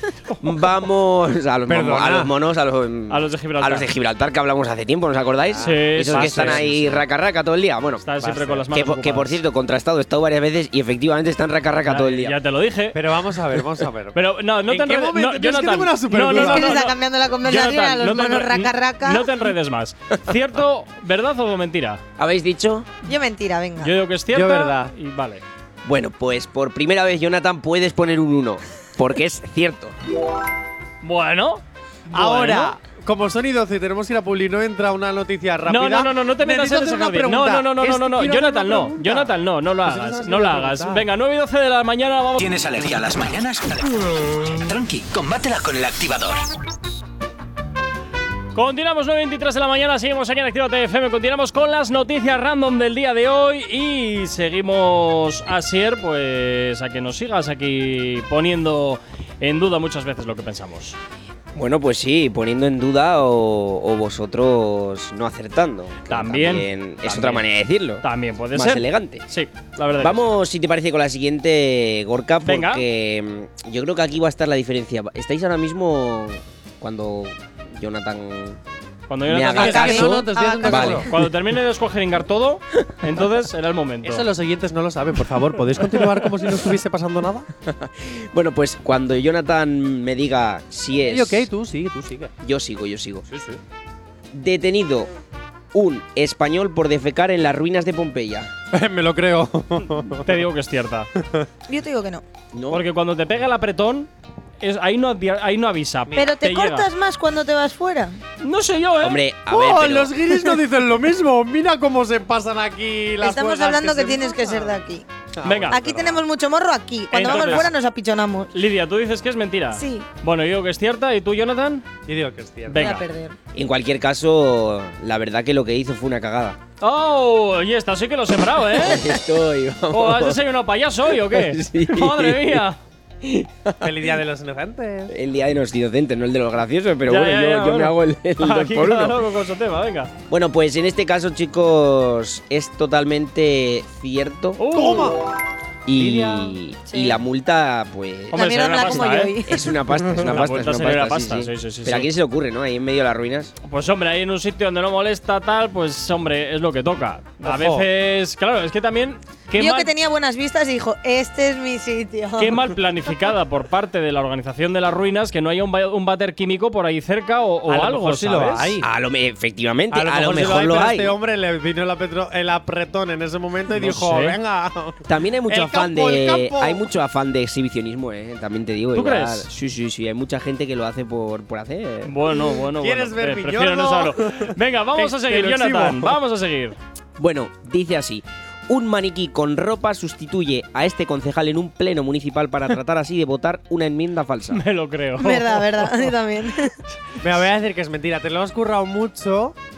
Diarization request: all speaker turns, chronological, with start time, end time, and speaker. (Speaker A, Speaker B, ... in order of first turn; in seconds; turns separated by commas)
Speaker A: 0.4-8.1, Speaker B: 1.7-2.3, Speaker C: 3.1-3.9, Speaker B: 5.5-7.0, Speaker C: 5.6-6.7, Speaker C: 8.0-9.4, Speaker B: 8.2-8.7, Speaker A: 8.7-12.4, Speaker C: 11.8-13.0, Speaker B: 12.9-16.8, Speaker C: 14.1-22.0, Speaker D: 16.2-19.3, Speaker A: 22.2-22.9, Speaker D: 23.1-23.9, Speaker C: 23.8-25.4, Speaker B: 24.3-24.9, Speaker A: 25.9-30.0, Speaker C: 31.0-32.7, Speaker B: 32.1-41.1, Speaker C: 35.7-42.5, Speaker E: 42.4-46.5, Speaker C: 48.5-61.0, Speaker A: 61.5-69.3, Speaker C: 66.1-67.4, Speaker C: 68.0-70.3, Speaker A: 70.0-78.6, Speaker C: 72.5-72.8, Speaker C: 79.1-80.1, Speaker A: 79.2-81.1, Speaker B: 79.6-81.1, Speaker D: 79.6-81.0, Speaker C: 80.7-84.3, Speaker B: 84.0-87.5, Speaker A: 87.7-91.5, Speaker B: 91.1-92.3, Speaker A: 92.4-93.3, Speaker A: 94.3-95.1, Speaker A: 95.7-98.5, Speaker B: 98.7-100.3, Speaker C: 100.2-101.1, Speaker B: 101.2-101.5, Speaker D: 101.7-102.2, Speaker A: 102.5-102.8, Speaker C: 102.7-104.1, Speaker C: 104.6-106.9, Speaker D: 106.2-108.2, Speaker C: 108.4-109.2, Speaker A: 109.0-110.2, Speaker B: 109.5-114.8, Speaker D: 113.2-115.0, Speaker B: 115.4-116.2, Speaker C: 115.4-115.8, Speaker D: 115.7-118.5, Speaker C: 117.1-117.7, Speaker B: 117.2-117.7, Speaker C: 118.5-121.9, Speaker D: 119.7-120.1, Speaker B: 122.1-122.9, Speaker C: 122.7-123.1, Speaker D: 122.8-123.4, Speaker A: 123.5-126.6, Speaker C: 126.8-129.1, Speaker A: 128.7-130.4, Speaker C: 129.9-132.8, Speaker A: 131.2-132.7, Speaker A: 133.2-134.1, Speaker B: 133.8-135.2, Speaker A: 135.1-139.2, Speaker C: 137.1-140.1, Speaker A: 140.3-144.6, Speaker C: 144.6-145.2, Speaker B: 144.7-145.3, Speaker A: 145.9-148.9, Speaker B: 145.9-146.6, Speaker D: 146.9-147.2, Speaker C: 148.3-149.4, Speaker D: 148.3-149.7, Speaker A: 149.4-153.5, Speaker C: 150.2-152.1, Speaker C: 153.6-159.9, Speaker B: 157.4-157.9, Speaker D: 159.6-162.6, Speaker C: 162.4-168.8, Speaker B: 167.7-168.9, Speaker A: 168.8-171.2, Speaker B: 169.9-176.9, Speaker C: 173.8-174.4, Speaker A: 175.1-182.2, Speaker C: 178.9-179.5, Speaker C: 182.1-186.8, Speaker B: 182.5-186.2, Speaker A: 187.2-194.6, Speaker C: 194.5-196.1, Speaker D: 195.2-196.8, Speaker B: 197.2-199.6